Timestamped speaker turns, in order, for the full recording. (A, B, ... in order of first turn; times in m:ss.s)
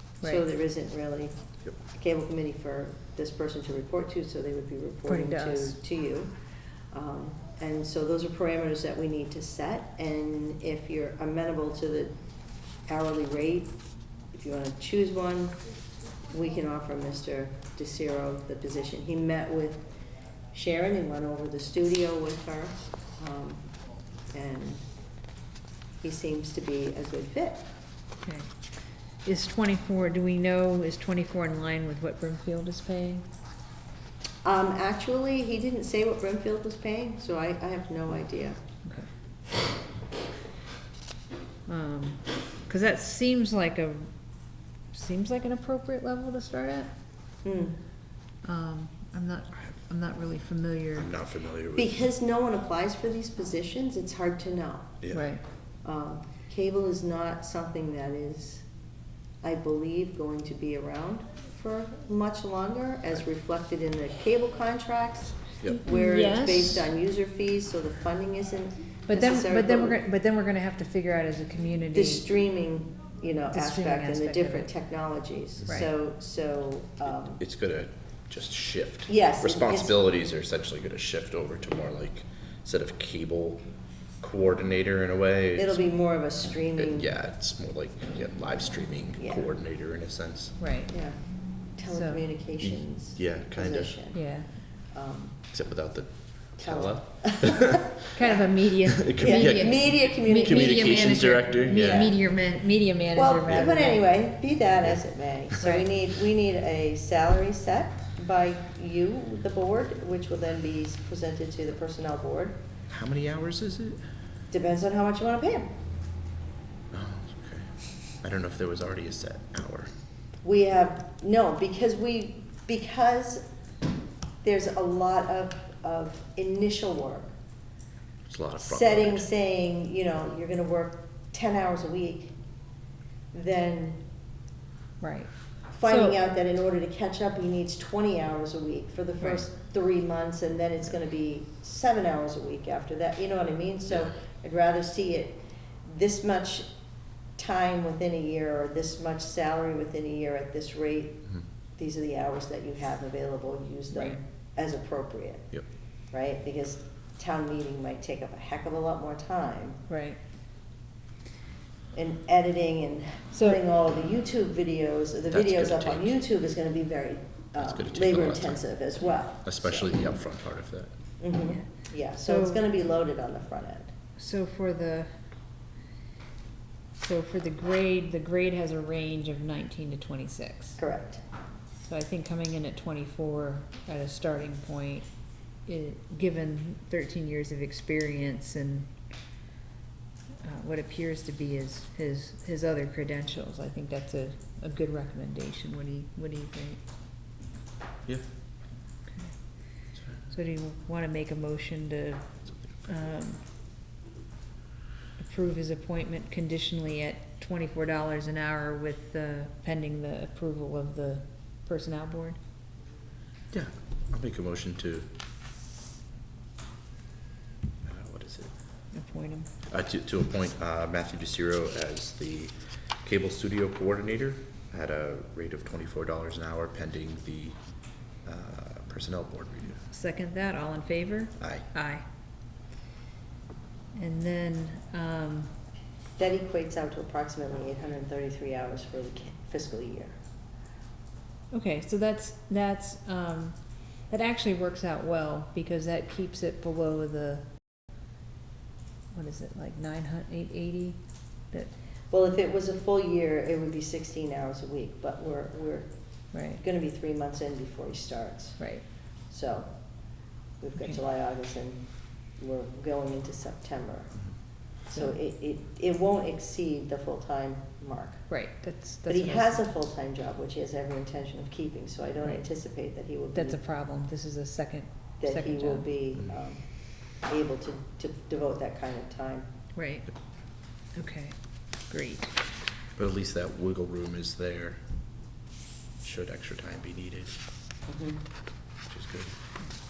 0:00.2-0:01.3 A
0:01.9-0:06.3 A
0:05.1-0:05.8 B
0:06.9-0:12.2 A
0:12.9-0:13.8 A
0:14.3-0:15.6 A
0:16.3-0:19.8 A
0:20.5-0:23.7 A
0:24.3-0:24.9 A
0:26.0-0:27.7 A
0:28.2-0:28.5 B
0:29.2-0:33.3 B
0:34.4-0:38.6 A
0:41.7-0:44.1 B
0:44.9-0:46.9 B
0:47.4-0:47.8 A
0:48.4-0:51.1 B
0:51.0-0:52.0 C
0:51.8-0:55.0 A
0:55.0-0:55.3 C
0:55.1-0:55.4 B
0:55.8-0:58.7 A
0:59.4-1:10.0 A
1:05.7-1:06.9 B
1:09.1-1:12.3 B
1:11.9-1:17.4 A
1:13.5-1:14.7 B
1:17.4-1:23.6 C
1:19.1-1:20.0 A
1:24.2-1:25.8 C
1:25.6-1:27.1 A
1:26.8-1:30.6 C
1:29.2-1:29.5 A
1:30.6-1:30.9 B
1:30.9-1:31.2 A
1:31.8-1:34.2 A
1:31.9-1:32.2 B
1:32.6-1:34.0 C
1:34.1-1:34.5 B
1:34.9-1:35.4 A
1:35.5-1:38.0 C
1:36.6-1:38.5 A
1:38.1-1:44.1 B
1:39.0-1:42.2 C
1:39.1-1:41.2 A
1:41.8-1:42.1 A
1:43.1-1:52.6 A
1:45.6-1:45.9 B
1:52.9-1:54.0 C
1:54.5-1:55.7 A
1:56.9-1:57.7 C
1:58.2-1:59.9 C
2:00.4-2:03.4 A
2:04.4-2:07.4 A
2:08.3-2:09.3 C
2:08.6-2:12.4 A
2:13.3-2:14.0 A
2:15.0-2:15.3 B
2:15.7-2:26.7 A
2:15.9-2:16.2 B
2:27.4-2:35.6 A
2:33.9-2:34.2 B
2:36.1-2:39.8 A
2:39.9-2:40.2 B
2:41.9-2:49.9 A
2:43.4-2:43.6 B
2:45.3-2:46.2 C
2:47.6-2:48.6 C
2:49.4-2:50.9 C
2:51.2-2:53.9 A
2:52.2-2:52.6 B
2:54.2-2:55.1 B
2:57.0-3:00.8 B
3:00.8-3:01.2 A
3:01.9-3:05.1 B
3:05.7-3:08.9 B
3:10.4-3:16.8 B
3:19.1-3:23.4 B
3:20.0-3:20.3 C
3:25.2-3:32.4 B
3:33.5-3:35.1 C
3:37.8-3:38.5 C
3:38.9-3:39.5 B
3:39.7-3:47.6 C
3:48.2-3:49.8 C
3:49.9-3:52.0 B
3:51.4-3:51.7 C
3:54.0-3:55.5 B
3:56.2-4:00.2 A
4:01.5-4:07.5 B
4:09.1-4:11.7 B
4:12.1-4:15.9 A
4:16.3-4:16.6 B
4:16.6-4:19.7 A
4:18.6-4:18.9 B
4:20.6-4:24.3 A
4:24.8-4:28.3 A
4:24.9-4:25.2 B
4:28.3-4:29.6 B
4:29.1-4:33.6 A
4:33.3-4:35.9 B
4:35.2-4:39.5 A
4:39.8-4:40.1 B
4:40.9-4:41.4 B
4:41.9-4:42.3 B
4:43.0-4:44.8 C
4:46.0-4:47.4 C
4:47.9-4:48.2 A
4:48.9-4:49.4 C